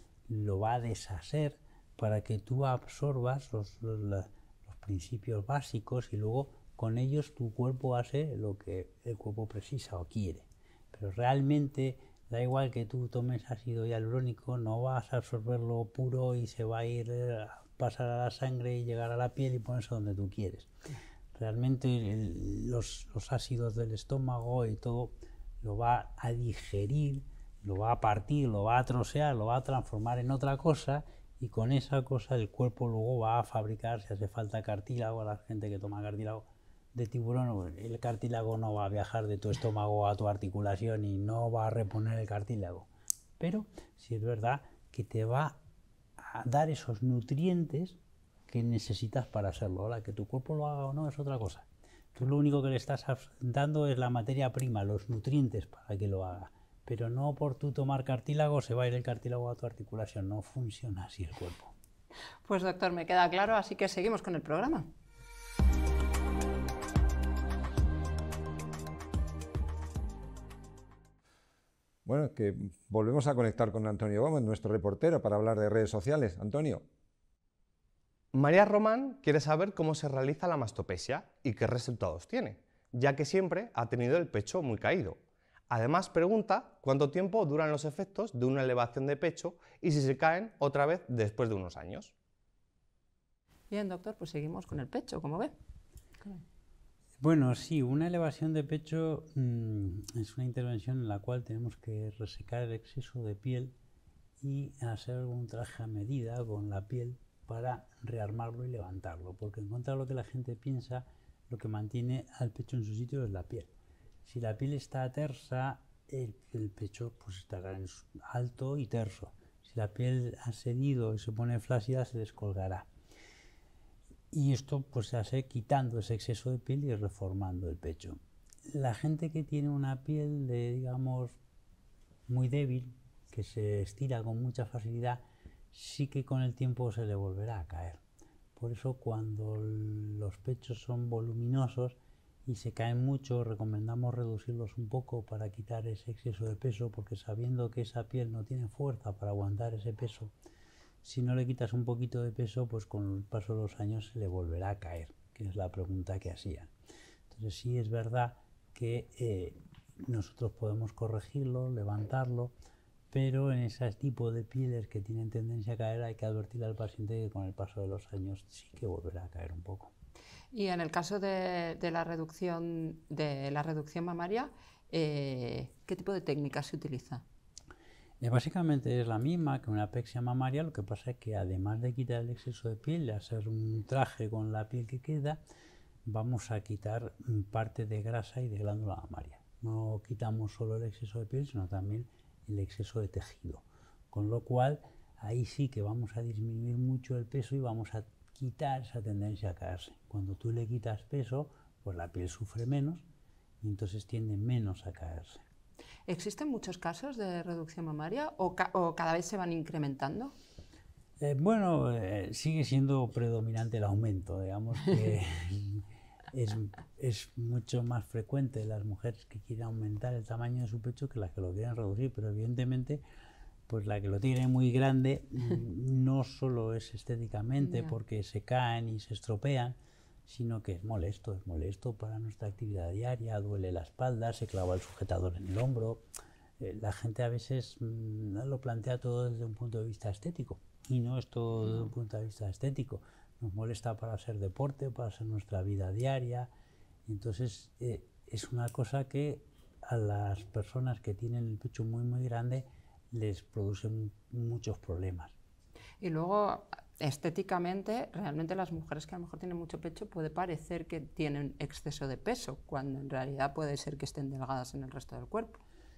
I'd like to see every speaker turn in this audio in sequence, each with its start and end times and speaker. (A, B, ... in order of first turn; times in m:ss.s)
0:00.3-0:20.7 A
0:21.3-0:45.6 A
0:46.2-1:01.7 A
1:02.4-1:04.9 B
1:12.0-1:16.8 C
1:18.3-1:25.2 D
1:25.7-1:32.1 D
1:33.7-1:35.5 B
1:37.2-1:43.7 A
1:44.4-1:53.7 A
1:54.2-2:02.9 A
2:04.3-2:11.4 A
2:12.3-2:18.0 A
2:18.6-2:30.3 A
2:31.0-2:36.7 A
2:37.3-2:42.5 A
2:43.1-2:49.9 A
2:50.5-2:57.2 B
2:58.2-3:05.4 A
3:06.0-3:23.0 A
3:23.6-3:25.4 A
3:26.1-3:30.3 B
3:31.2-3:43.0 A
3:43.7-3:56.0 A
3:47.6-3:47.9 B
3:56.6-4:06.5 A
4:07.0-4:15.3 A
4:16.0-4:25.6 B